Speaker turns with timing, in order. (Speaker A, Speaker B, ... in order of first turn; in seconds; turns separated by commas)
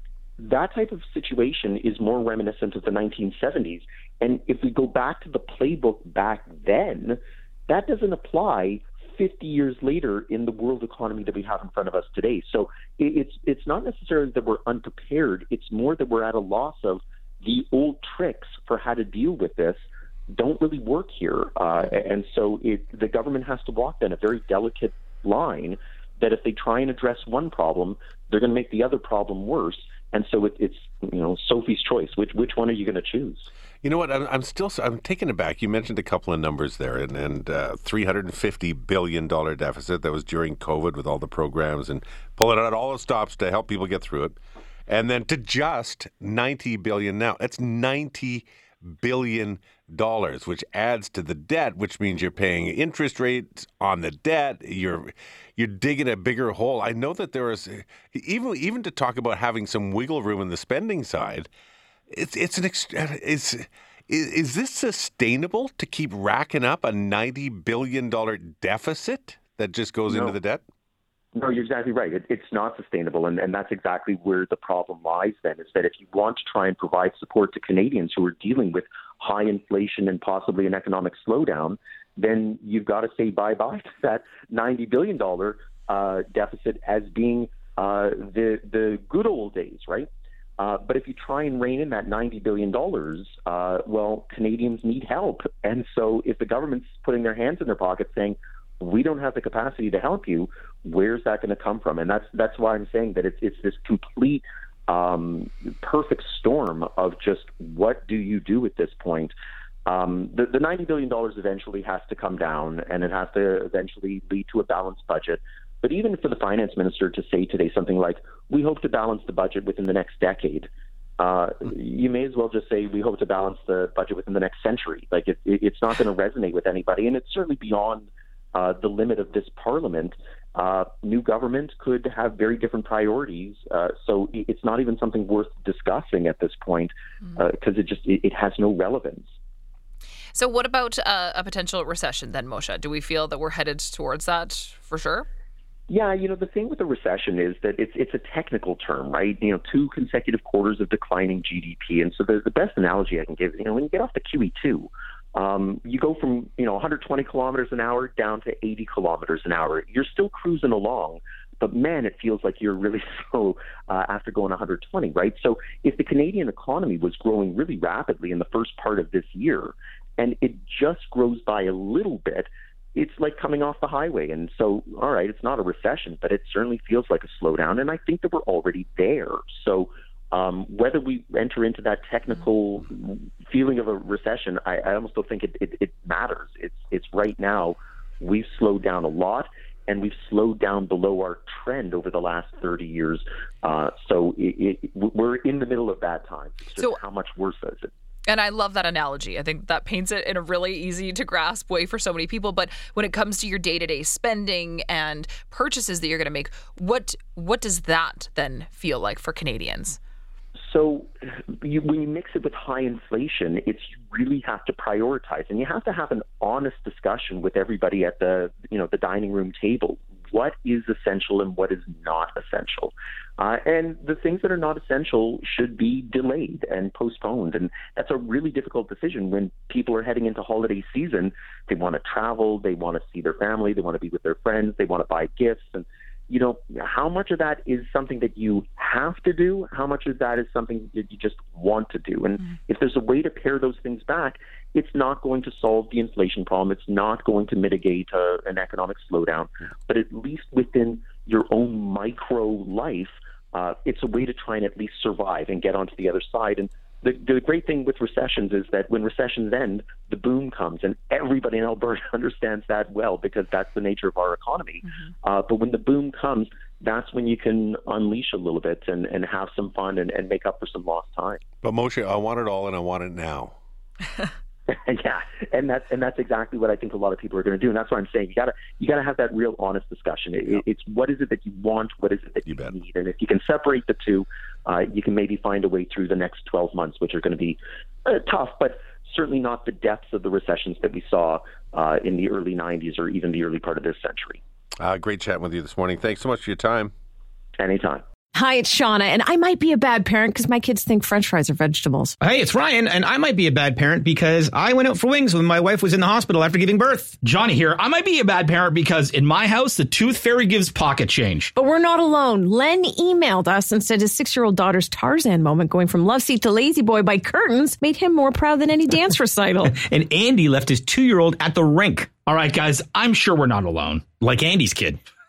Speaker A: 0.4-33.5, Speaker B: 33.8-61.5, Speaker B: 62.1-70.6, Speaker A: 70.1-70.3, Speaker A: 71.3-109.3, Speaker A: 109.9-120.7, Speaker A: 121.2-139.3, Speaker C: 140.3-145.3, Speaker A: 145.9-197.9, Speaker C: 198.3-210.0, Speaker A: 210.6-271.4, Speaker B: 271.6-273.6, Speaker A: 274.7-294.4, Speaker B: 282.5-282.8, Speaker B: 294.8-296.9, Speaker A: 297.6-298.0, Speaker D: 298.4-302.1, Speaker E: 302.2-307.1, Speaker F: 307.2-311.5, Speaker D: 311.6-319.8, Speaker F: 319.9-325.0